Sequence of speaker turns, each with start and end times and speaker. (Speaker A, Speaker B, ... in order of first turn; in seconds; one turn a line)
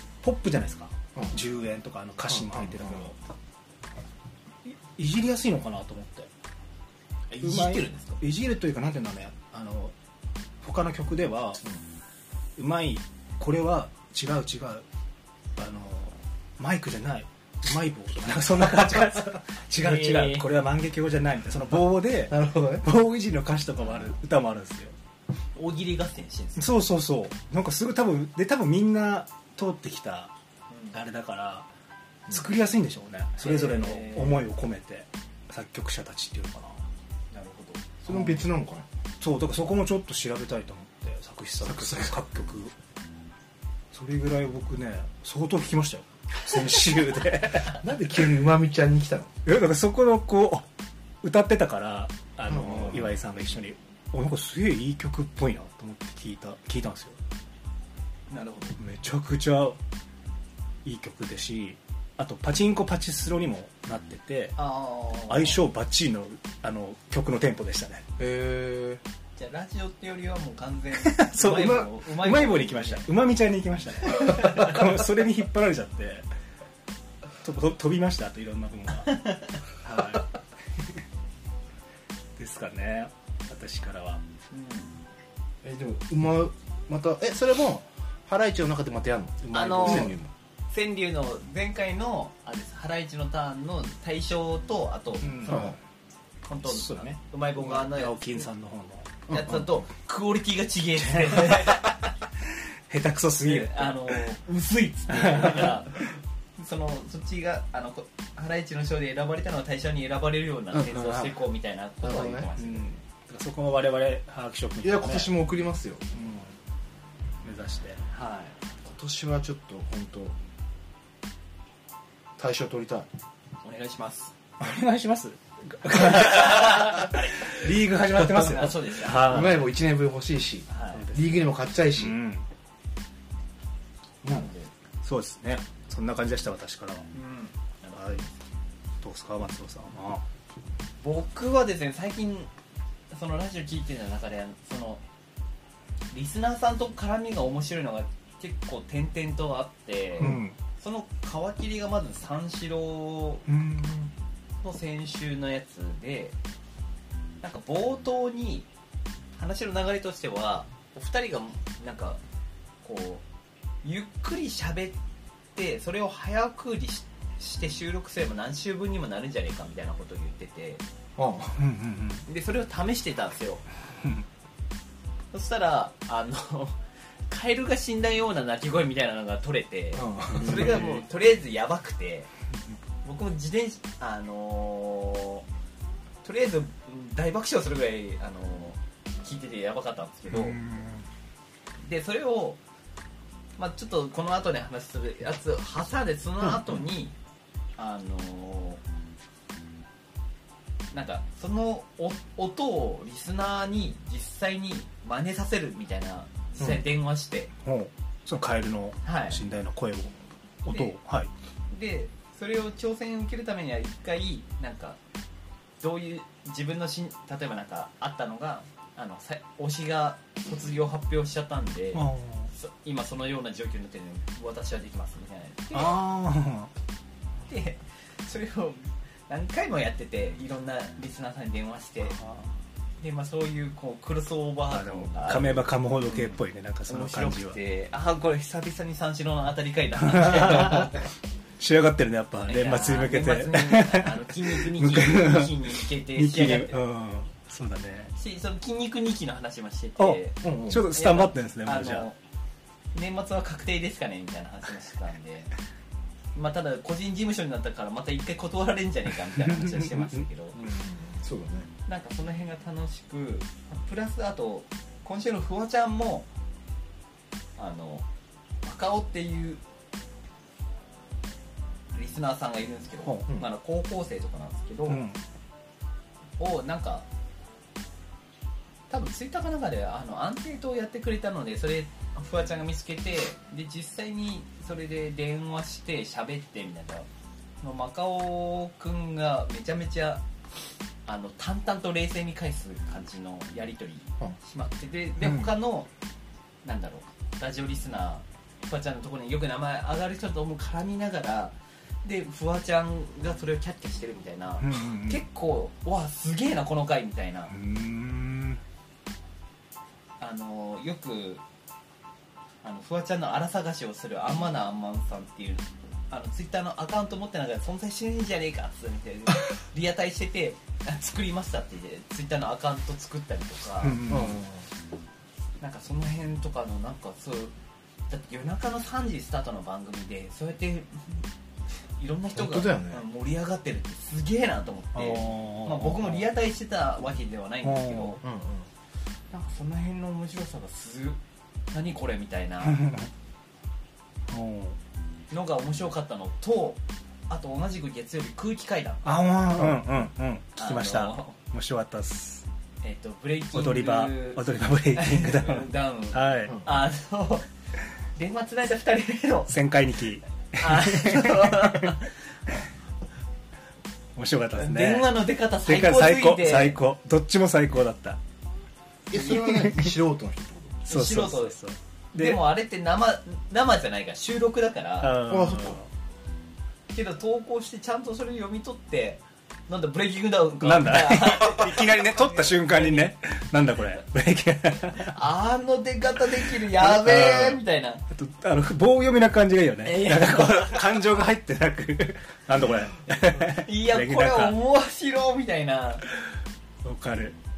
Speaker A: 0.2-3.2
Speaker B: 2.3-3.1
Speaker A: 4.7-6.3
Speaker C: 7.3-8.2
Speaker A: 7.4-9.9
Speaker A: 10.6-11.6
Speaker A: 12.6-14.8
Speaker A: 15.6-24.9
Speaker C: 19.8-20.5
Speaker B: 22.3-22.9
Speaker C: 25.5-26.7
Speaker A: 26.6-30.3
Speaker C: 30.7-31.0
Speaker A: 30.9-31.7
Speaker A: 32.3-36.8
Speaker C: 33.4-34.5
Speaker C: 37.3-37.9
Speaker B: 38.0-38.9
Speaker A: 38.1-38.5
Speaker A: 39.2-42.7
Speaker B: 41.7-42.1
Speaker A: 43.9-47.8
Speaker B: 47.7-49.3
Speaker A: 49.5-50.7
Speaker A: 51.2-57.2
Speaker B: 52.5-53.1
Speaker C: 58.3-58.8
Speaker A: 58.8-59.8
Speaker A: 60.8-64.6
Speaker C: 64.6-65.6
Speaker A: 65.3-68.1
Speaker B: 68.2-69.0
Speaker C: 69.4-73.0
Speaker A: 71.0-76.3
Speaker C: 74.1-74.8
Speaker A: 77.4-80.3
Speaker C: 79.2-79.6
Speaker A: 82.4-84.2
Speaker C: 84.5-85.0
Speaker B: 85.6-90.3
Speaker C: 89.5-90.2
Speaker C: 90.7-95.8
Speaker A: 95.2-95.7
Speaker B: 95.5-95.8
Speaker C: 96.5-98.5
Speaker A: 96.7-99.3
Speaker C: 99.3-102.0
Speaker A: 101.1-102.0
Speaker A: 102.9-104.2
Speaker C: 103.4-106.0
Speaker A: 105.2-105.8
Speaker C: 106.6-113.0
Speaker B: 110.8-111.3
Speaker B: 112.0-112.5
Speaker A: 112.6-115.3
Speaker B: 114.8-116.4
Speaker A: 117.4-118.0
Speaker C: 118.1-118.6
Speaker B: 118.9-120.4
Speaker B: 122.4-123.1
Speaker C: 123.6-124.3
Speaker A: 124.6-129.7
Speaker C: 126.2-127.6
Speaker C: 128.2-129.6
Speaker B: 129.2-132.2
Speaker C: 130.7-131.1
Speaker A: 130.9-131.3
Speaker A: 131.9-132.5
Speaker C: 134.3-134.7
Speaker A: 135.0-137.1
Speaker C: 137.1-138.3
Speaker A: 137.9-138.2
Speaker A: 139.0-140.2
Speaker C: 141.0-142.5
Speaker C: 143.1-145.0
Speaker C: 146.1-153.4
Speaker A: 150.2-150.6
Speaker A: 153.5-154.1
Speaker C: 154.6-156.3
Speaker C: 157.4-158.7
Speaker C: 159.4-162.2
Speaker C: 162.8-163.2
Speaker C: 163.8-165.0
Speaker C: 165.6-170.8
Speaker B: 171.2-171.6
Speaker A: 171.6-172.3
Speaker C: 172.3-173.7
Speaker C: 175.3-182.3
Speaker B: 179.9-180.8
Speaker A: 180.4-181.0
Speaker C: 183.0-185.5
Speaker C: 186.2-190.6
Speaker A: 190.3-191.1
Speaker C: 191.8-192.6
Speaker C: 193.6-197.2
Speaker C: 197.8-198.8
Speaker C: 200.9-207.5
Speaker A: 207.6-210.1
Speaker C: 209.0-209.4
Speaker A: 210.7-211.3
Speaker C: 210.7-210.9
Speaker C: 211.7-215.0
Speaker C: 215.8-226.0
Speaker A: 221.9-222.5
Speaker A: 225.7-226.7
Speaker C: 227.5-232.2
Speaker A: 232.1-232.5
Speaker C: 233.0-241.0
Speaker A: 234.7-237.6
Speaker A: 240.1-241.0
Speaker A: 241.6-248.1
Speaker C: 242.4-246.8
Speaker C: 248.2-252.2
Speaker A: 250.0-252.1
Speaker B: 250.4-250.8
Speaker C: 252.9-255.5
Speaker C: 256.4-260.6
Speaker A: 259.4-260.2
Speaker B: 260.6-261.7
Speaker C: 261.9-266.3
Speaker C: 267.6-268.1
Speaker C: 268.6-269.6
Speaker C: 271.9-275.0
Speaker A: 274.9-275.2
Speaker C: 276.4-277.1
Speaker C: 278.9-287.1
Speaker C: 287.6-290.2
Speaker C: 291.1-295.9
Speaker A: 295.2-295.5
Speaker C: 296.6-307.5
Speaker A: 304.6-305.2
Speaker A: 307.5-308.6
Speaker C: 310.2-311.4
Speaker C: 312.6-324.1
Speaker A: 323.8-324.4
Speaker B: 324.1-324.6
Speaker C: 325.6-327.5
Speaker C: 328.1-331.3
Speaker C: 332.0-338.2
Speaker B: 332.4-333.0
Speaker A: 334.9-336.3
Speaker A: 337.6-338.2
Speaker B: 338.2-338.7
Speaker C: 339.3-341.2
Speaker C: 341.7-342.8
Speaker A: 342.6-343.1
Speaker A: 344.3-344.8
Speaker C: 345.3-349.7
Speaker A: 349.1-352.5
Speaker C: 350.6-351.4
Speaker C: 352.8-357.5
Speaker A: 353.5-356.6
Speaker C: 358.2-359.5
Speaker A: 359.5-361.9
Speaker C: 360.6-362.1
Speaker A: 364.2-368.2
Speaker C: 364.5-366.8
Speaker B: 369.1-370.8
Speaker A: 369.3-369.9
Speaker C: 370.9-371.6
Speaker A: 370.9-372.5
Speaker C: 372.1-375.2
Speaker A: 375.0-375.9
Speaker B: 375.3-375.8
Speaker C: 376.9-383.1
Speaker A: 380.6-385.2
Speaker C: 384.9-388.0
Speaker A: 386.6-394.6
Speaker C: 389.9-390.8
Speaker C: 393.3-396.1
Speaker A: 396.8-397.4